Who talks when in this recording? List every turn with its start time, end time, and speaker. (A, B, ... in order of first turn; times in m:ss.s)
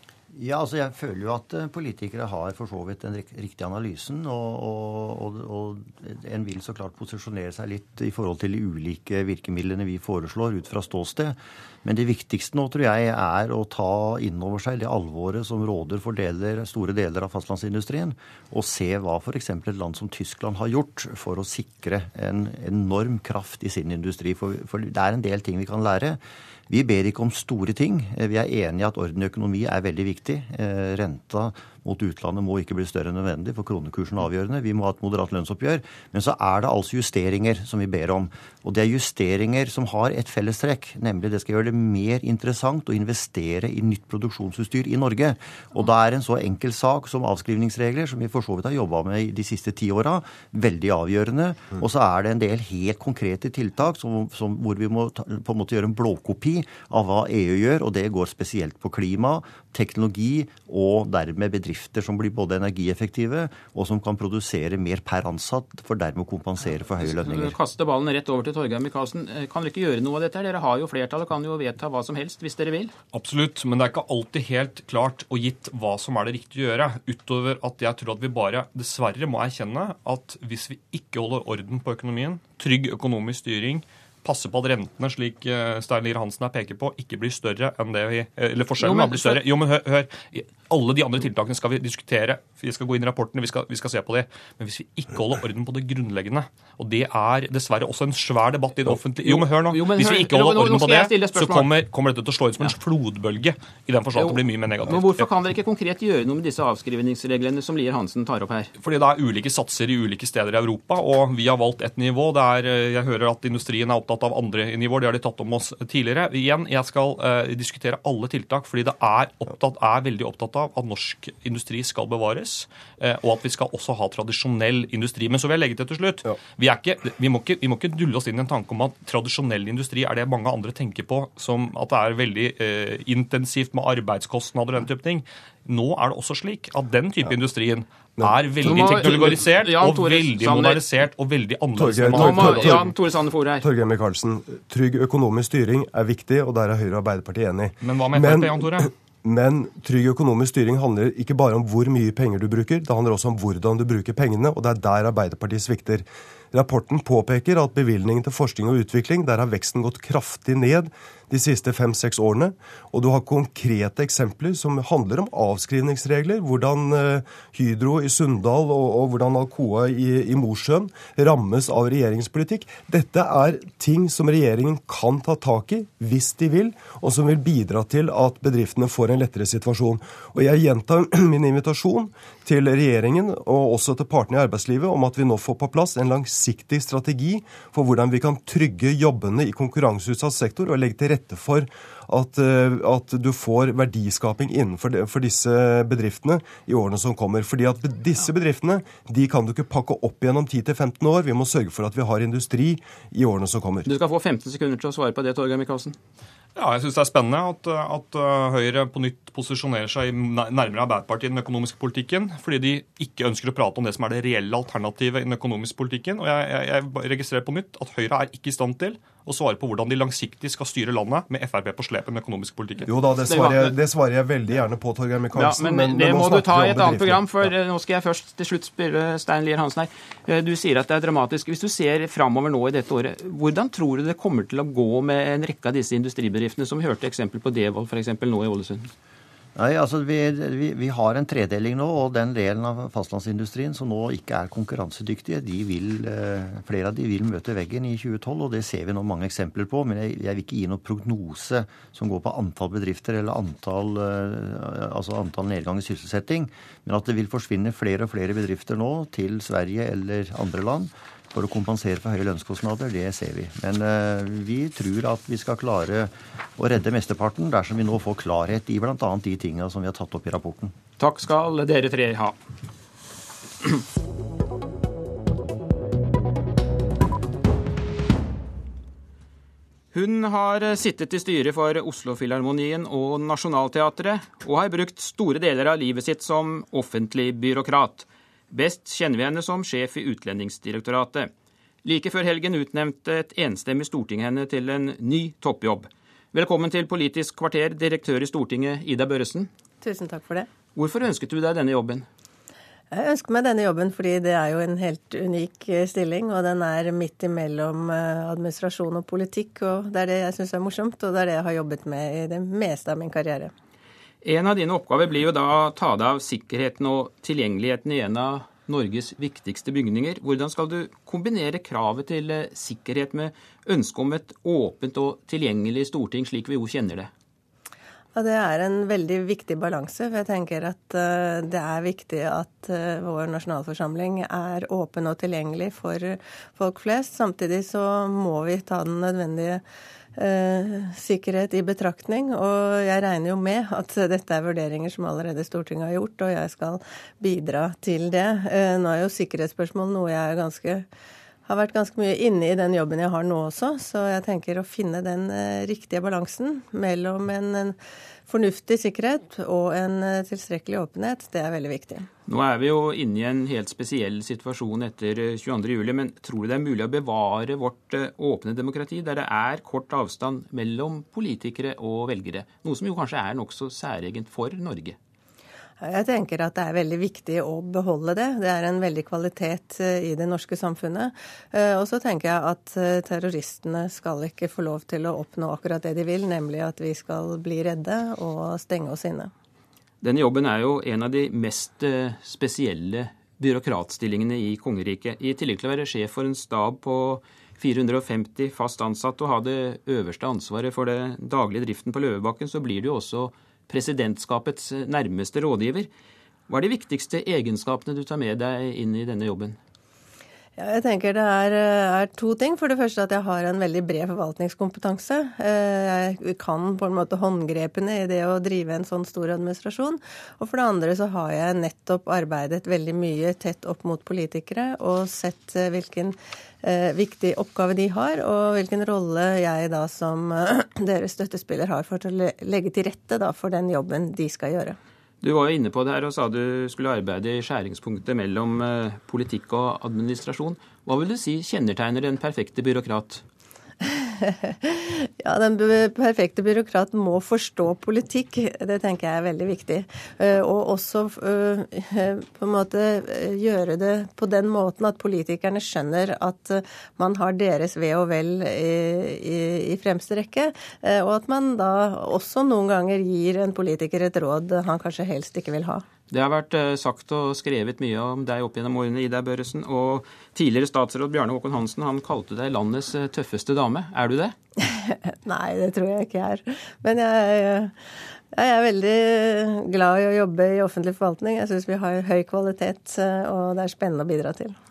0:00.4-1:07.5 A
1:06.9-1:12.9 B
1:13.1-1:45.3 C
1:28.8-1:29.4 B
1:39.2-1:41.7 B
1:44.2-1:48.7 B
1:48.8-2:22.9 C
2:18.6-2:20.9 B
2:21.8-2:22.9 D
2:22.1-2:23.7 B
2:23.6-3:23.9 D
2:27.8-2:28.9 C
3:23.9-3:26.0 B
3:26.6-3:42.9 C
3:42.9-3:47.5 D
3:43.3-3:43.8 B
3:45.3-3:58.9 B
3:59.6-4:30.7 A
4:31.0-4:32.4 B
4:39.9-4:51.3 B
4:51.8-4:59.5 B
4:59.8-5:00.5 E
5:00.8-5:02.1 B
5:02.9-5:13.5 E
5:14.2-5:27.1 B
5:28.1-5:39.6 E
5:40.2-5:50.9 E
5:51.5-6:02.1 E
6:02.3-6:15.0 B
6:15.8-6:29.3 E
6:30.0-6:45.9 B
6:46.5-6:49.6 B
6:50.6-7:14.8 E
7:15.2-7:23.2 B
7:23.8-7:45.8 E
7:46.1-7:54.4 B
7:54.6-7:57.8 E
7:58.3-8:04.6 E